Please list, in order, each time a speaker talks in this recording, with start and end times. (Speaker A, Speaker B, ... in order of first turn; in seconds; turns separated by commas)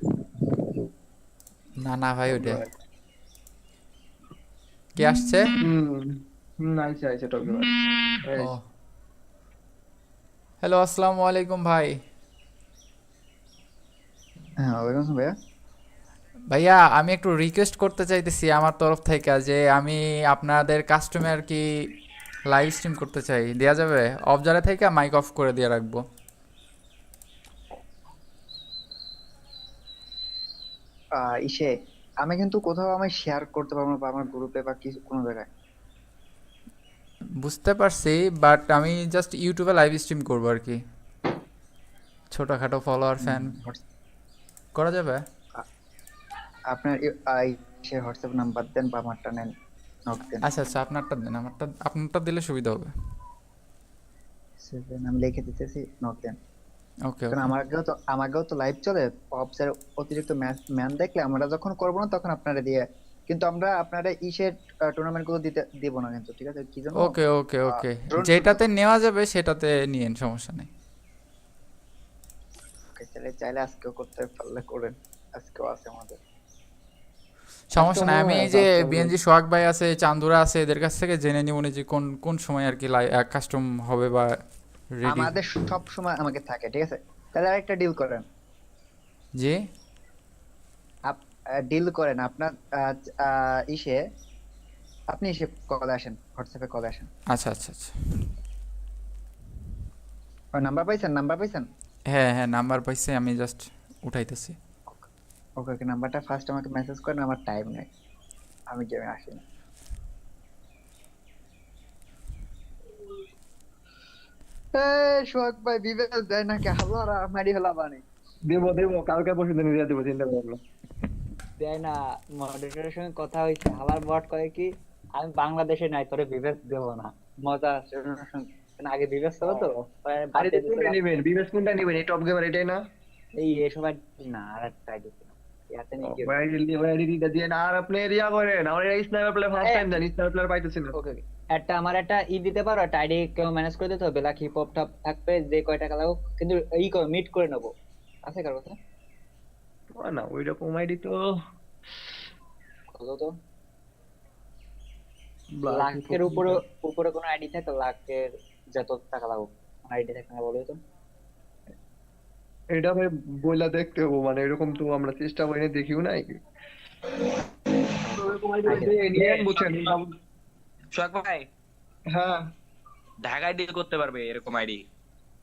Speaker A: 1.8-2.6, Speaker B: 2.3-2.7, Speaker A: 5.0-5.5, Speaker B: 5.6-8.5, Speaker A: 8.4-8.7, Speaker A: 10.6-12.0, Speaker C: 14.6-15.3, Speaker A: 16.5-21.7, Speaker A: 22.5-26.0, Speaker C: 31.2-35.5, Speaker A: 37.4-40.8, Speaker A: 42.3-43.6, Speaker C: 43.2-43.8, Speaker A: 44.7-45.2, Speaker C: 46.7-49.5, Speaker C: 50.1-50.4, Speaker A: 50.4-52.9, Speaker C: 54.6-56.4, Speaker A: 57.1-57.5, Speaker C: 57.3-67.2, Speaker A: 67.0-70.7, Speaker C: 67.7-68.6, Speaker C: 72.9-76.2, Speaker A: 77.7-84.4, Speaker B: 77.8-79.1, Speaker A: 85.0-85.4, Speaker C: 85.1-88.2, Speaker C: 91.1-94.0, Speaker C: 95.1-97.1, Speaker A: 97.3-98.3, Speaker C: 100.5-101.7, Speaker A: 102.1-104.6, Speaker C: 105.6-107.9, Speaker C: 108.7-109.4, Speaker C: 114.8-118.0, Speaker B: 118.5-120.6, Speaker D: 121.6-131.0, Speaker B: 129.4-129.7, Speaker B: 130.4-132.8, Speaker D: 133.4-136.3, Speaker B: 136.0-140.9, Speaker D: 139.6-139.9, Speaker D: 140.9-147.7, Speaker D: 148.3-148.8, Speaker B: 150.0-151.2, Speaker D: 152.9-153.3, Speaker B: 155.5-156.6, Speaker D: 155.7-160.8, Speaker B: 162.7-166.4, Speaker B: 168.1-170.1, Speaker D: 168.7-169.0, Speaker E: 169.2-170.0, Speaker E: 170.9-171.5, Speaker B: 172.1-172.4, Speaker E: 173.2-174.8